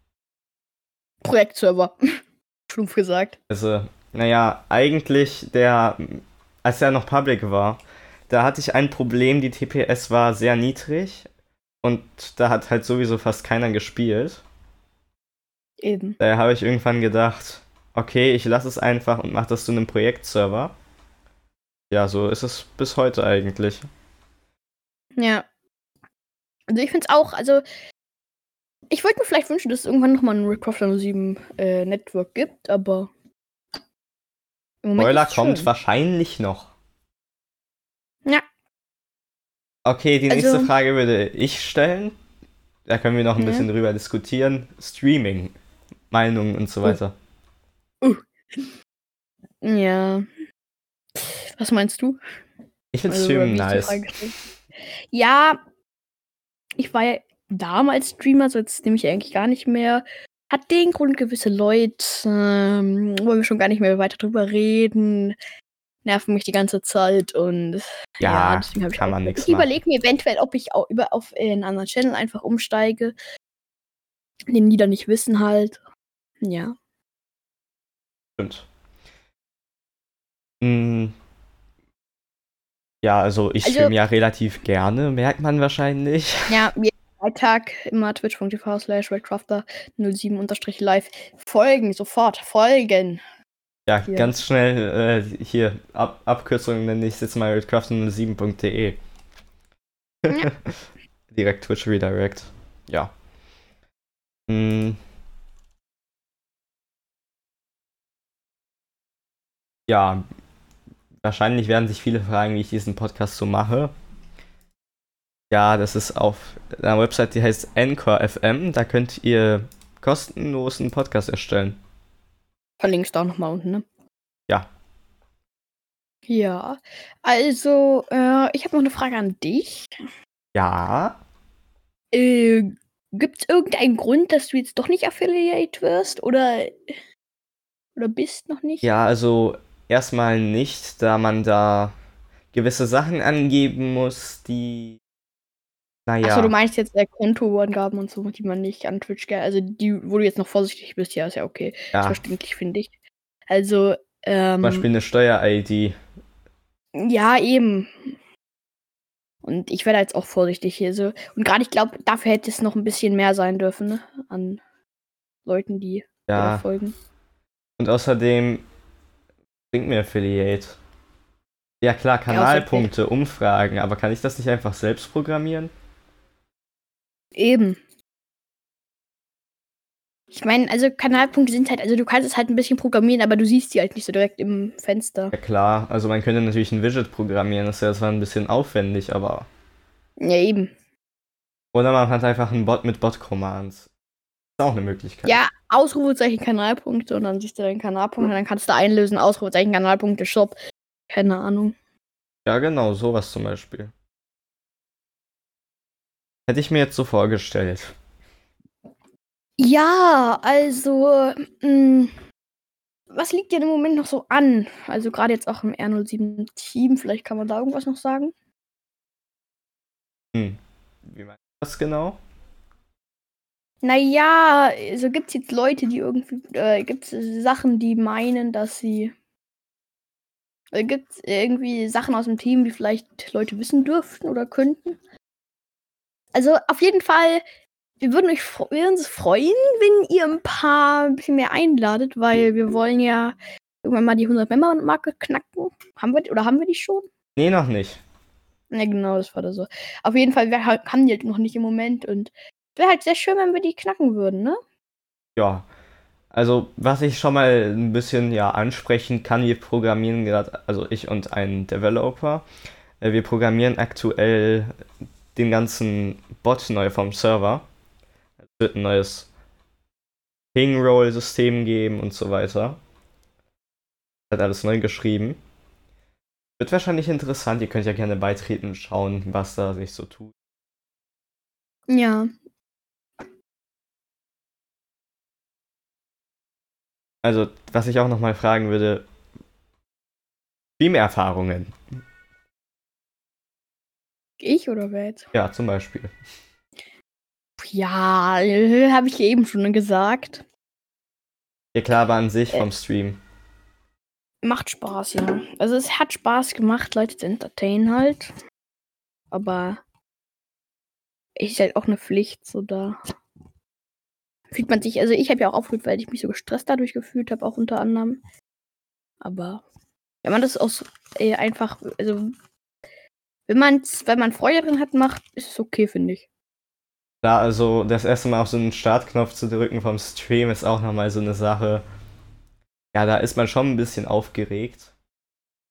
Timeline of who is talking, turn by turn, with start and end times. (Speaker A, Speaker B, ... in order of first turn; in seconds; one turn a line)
Speaker A: 1.2-2.0
Speaker A: 2.7-3.4
Speaker B: 3.5-11.3
Speaker B: 11.8-14.4
Speaker A: 15.8-16.2
Speaker B: 16.2-20.7
Speaker B: 21.9-23.9
Speaker A: 25.2-25.4
Speaker A: 26.7-27.6
Speaker A: 28.9-33.1
Speaker A: 34.8-35.7
Speaker B: 35.0-36.7
Speaker B: 39.9-42.2
Speaker A: 40.3-40.7
Speaker B: 42.9-45.5
Speaker A: 43.4-43.7
Speaker B: 46.1-47.1
Speaker A: 48.0-48.7
Speaker A: 49.6-50.3
Speaker A: 51.1-52.2
Speaker B: 52.9-54.0
Speaker A: 53.1-54.4
Speaker A: 55.1-55.6
Speaker A: 56.8-65.4
Speaker A: 66.0-73.2
Speaker B: 68.2-69.7
Speaker A: 74.5-75.8
Speaker A: 76.4-76.8
Speaker B: 78.4-78.7
Speaker B: 80.6-81.2
Speaker B: 83.0-86.6
Speaker A: 83.6-83.9
Speaker A: 86.5-93.2
Speaker B: 93.9-99.0
Speaker A: 94.1-94.3
Speaker B: 100.3-100.8
Speaker B: 101.3-103.1
Speaker B: 104.5-105.0
Speaker B: 109.9-110.2
Speaker B: 111.2-113.9
Speaker B: 115.5-121.8
Speaker A: 122.8-123.8
Speaker A: 126.3-130.0
Speaker B: 130.6-131.2
Speaker A: 132.1-136.9
Speaker A: 138.0-138.9
Speaker B: 138.8-141.9
Speaker B: 142.5-145.0
Speaker B: 146.1-146.5
Speaker A: 146.2-152.9
Speaker B: 151.9-152.2
Speaker A: 153.5-154.9
Speaker B: 154.6-155.9
Speaker A: 156.9-158.0
Speaker A: 159.4-164.6
Speaker A: 165.4-166.9
Speaker B: 166.3-166.7
Speaker B: 167.8-168.7
Speaker B: 169.7-170.8
Speaker B: 171.8-175.7
Speaker A: 172.3-172.9
Speaker A: 177.4-177.8
Speaker A: 180.3-185.3
Speaker B: 185.3-189.5
Speaker A: 190.2-190.7
Speaker B: 191.7-193.9
Speaker B: 194.6-195.4
Speaker A: 195.2-200.6
Speaker A: 201.1-201.8
Speaker B: 202.5-203.9
Speaker B: 206.5-207.9
Speaker A: 209.6-212.1
Speaker A: 213.1-218.3
Speaker B: 220.3-222.2
Speaker A: 223.8-229.1
Speaker A: 230.7-235.0
Speaker A: 236.3-237.4
Speaker A: 238.0-247.1
Speaker B: 247.4-248.0
Speaker A: 248.7-254.6
Speaker B: 255.4-255.7
Speaker B: 256.3-262.4
Speaker B: 263.0-264.7
Speaker B: 265.4-267.7
Speaker B: 268.5-269.3
Speaker B: 270.6-272.8
Speaker B: 274.3-275.4
Speaker B: 276.6-280.3
Speaker A: 281.9-282.3
Speaker B: 287.2-289.1
Speaker B: 290.8-291.8
Speaker A: 294.4-295.3
Speaker B: 295.3-296.1
Speaker A: 297.6-300.4
Speaker B: 301.8-303.2
Speaker A: 304.4-308.3
Speaker A: 309.3-309.8
Speaker A: 311.4-313.0
Speaker A: 314.5-318.2
Speaker A: 319.2-319.6
Speaker A: 320.2-322.3
Speaker A: 323.5-326.3
Speaker B: 327.2-331.8
Speaker B: 332.9-334.9